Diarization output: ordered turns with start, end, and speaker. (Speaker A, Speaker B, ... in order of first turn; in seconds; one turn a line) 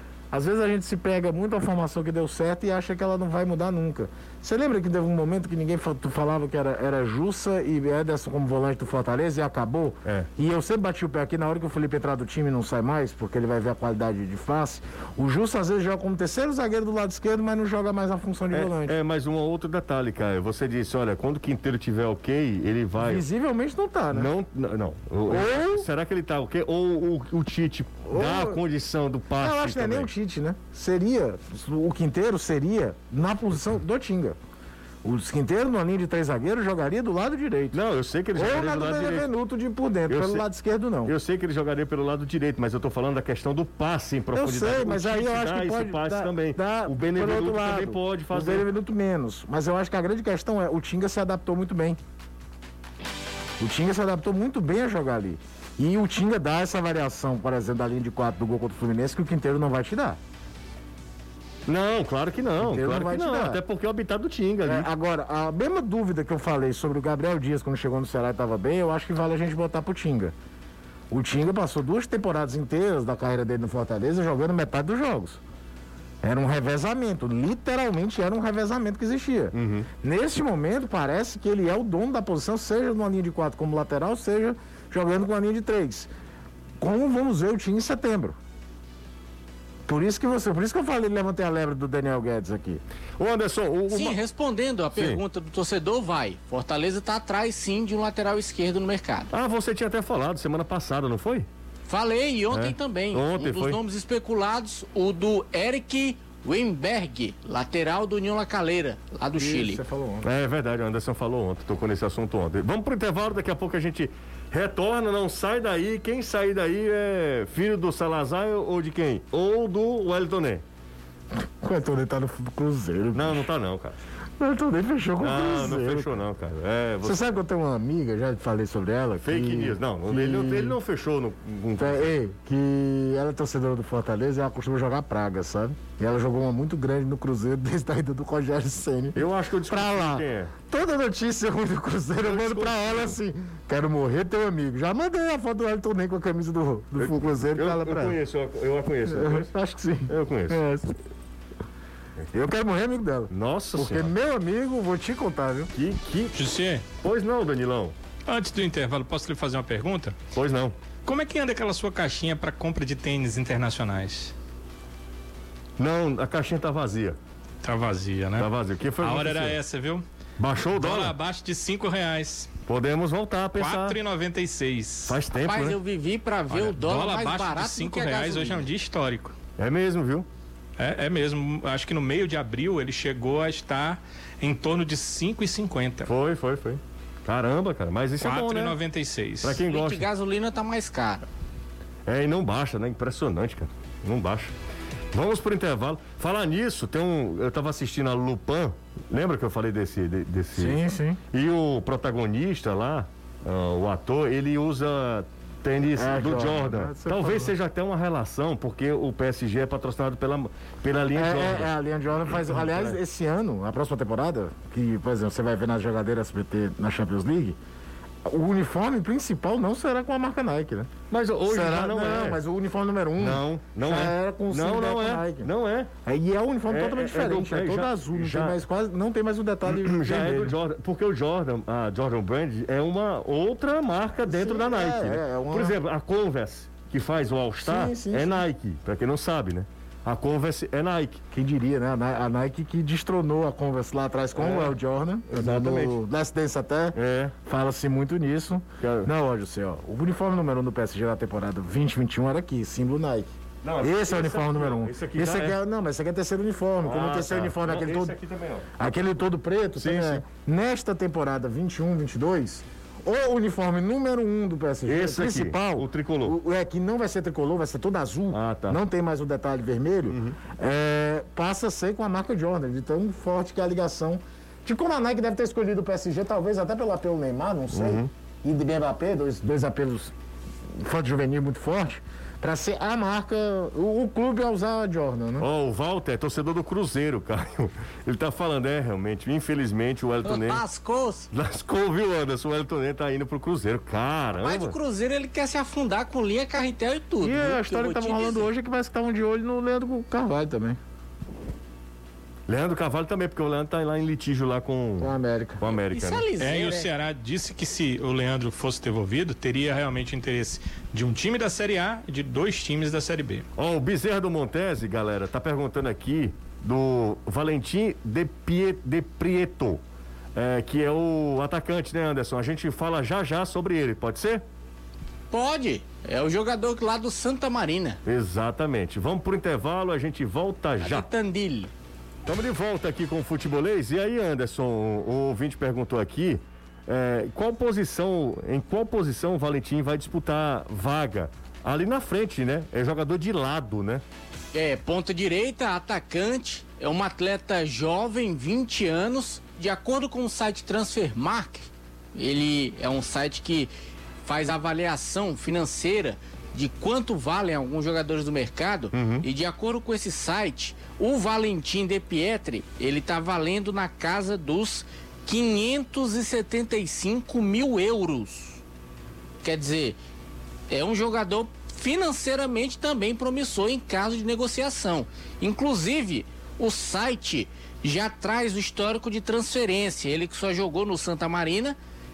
Speaker A: 0.3-18.9
Speaker B: 18.5-23.2
Speaker A: 23.0-24.3
Speaker B: 24.1-30.1
Speaker A: 25.3-25.9
Speaker A: 28.1-28.6
Speaker A: 29.4-34.4
Speaker A: 35.0-37.8
Speaker B: 37.7-39.3
Speaker A: 38.3-41.1
Speaker B: 40.1-40.4
Speaker B: 41.0-48.7
Speaker A: 44.3-52.0
Speaker A: 53.6-60.2
Speaker B: 61.7-64.9
Speaker A: 62.6-63.6
Speaker A: 64.6-70.3
Speaker A: 71.1-75.4
Speaker A: 76.2-86.1
Speaker B: 79.5-79.9
Speaker A: 86.8-88.4
Speaker A: 89.8-92.8
Speaker B: 93.2-94.2
Speaker C: 93.9-99.3
Speaker B: 94.9-95.2
Speaker B: 99.3-101.5
Speaker C: 101.9-109.8
Speaker B: 102.5-103.8
Speaker A: 109.3-110.3
Speaker B: 110.2-120.6
Speaker A: 121.4-123.5
Speaker B: 123.1-124.0
Speaker A: 124.4-126.1
Speaker B: 125.2-127.2
Speaker A: 127.0-130.8
Speaker B: 129.2-132.2
Speaker A: 131.8-148.2
Speaker B: 139.1-140.5
Speaker B: 142.2-143.2
Speaker B: 146.9-149.5
Speaker A: 149.1-150.9
Speaker B: 150.1-150.6
Speaker A: 152.3-155.7
Speaker B: 153.3-154.1
Speaker B: 155.7-156.4
Speaker D: 156.3-156.8
Speaker B: 157.0-157.9
Speaker D: 158.2-160.2
Speaker B: 160.3-160.8
Speaker D: 161.0-164.3
Speaker B: 165.8-167.2
Speaker D: 167.6-168.5
Speaker B: 168.4-169.6
Speaker D: 169.0-170.0
Speaker B: 170.4-171.2
Speaker D: 170.7-172.5
Speaker B: 172.7-174.0
Speaker D: 173.6-175.2
Speaker B: 175.1-175.8
Speaker C: 175.3-178.6
Speaker D: 176.5-179.3
Speaker B: 179.6-180.3
Speaker D: 180.8-186.1
Speaker B: 186.1-188.8
Speaker D: 188.2-189.6
Speaker B: 189.4-190.1
Speaker C: 189.6-191.2
Speaker B: 192.1-194.5
Speaker B: 195.1-211.7
Speaker A: 200.6-201.2
Speaker A: 205.9-207.5
Speaker A: 211.1-217.6
Speaker B: 212.3-213.0
Speaker A: 218.2-220.9
Speaker B: 221.1-222.4
Speaker A: 221.5-225.5
Speaker B: 223.2-225.9
Speaker A: 226.1-230.5
Speaker B: 226.7-228.6
Speaker B: 229.6-241.2
Speaker A: 234.3-235.7
Speaker A: 237.6-238.4
Speaker A: 241.3-258.1
Speaker B: 244.3-244.8
Speaker B: 245.3-246.0
Speaker B: 246.9-247.3
Speaker B: 248.8-249.1
Speaker B: 253.6-255.6
Speaker B: 256.8-258.7
Speaker A: 258.8-280.1
Speaker B: 259.8-260.2
Speaker B: 264.8-266.4
Speaker B: 268.3-268.8
Speaker B: 270.1-270.4
Speaker B: 277.7-278.1
Speaker A: 280.8-285.5
Speaker B: 285.4-290.6
Speaker C: 290.2-291.3
Speaker B: 291.3-294.8
Speaker C: 294.4-298.5
Speaker A: 297.2-300.8
Speaker B: 302.5-306.2
Speaker A: 305.0-305.6
Speaker C: 305.9-306.9
Speaker D: 306.4-313.4
Speaker B: 313.6-319.8
Speaker B: 320.3-324.4
Speaker C: 325.3-328.0
Speaker B: 328.0-331.1
Speaker C: 330.8-331.7
Speaker B: 332.2-344.0
Speaker C: 344.5-353.7
Speaker C: 354.2-368.6
Speaker B: 358.9-359.3
Speaker C: 369.4-370.0
Speaker C: 370.7-381.8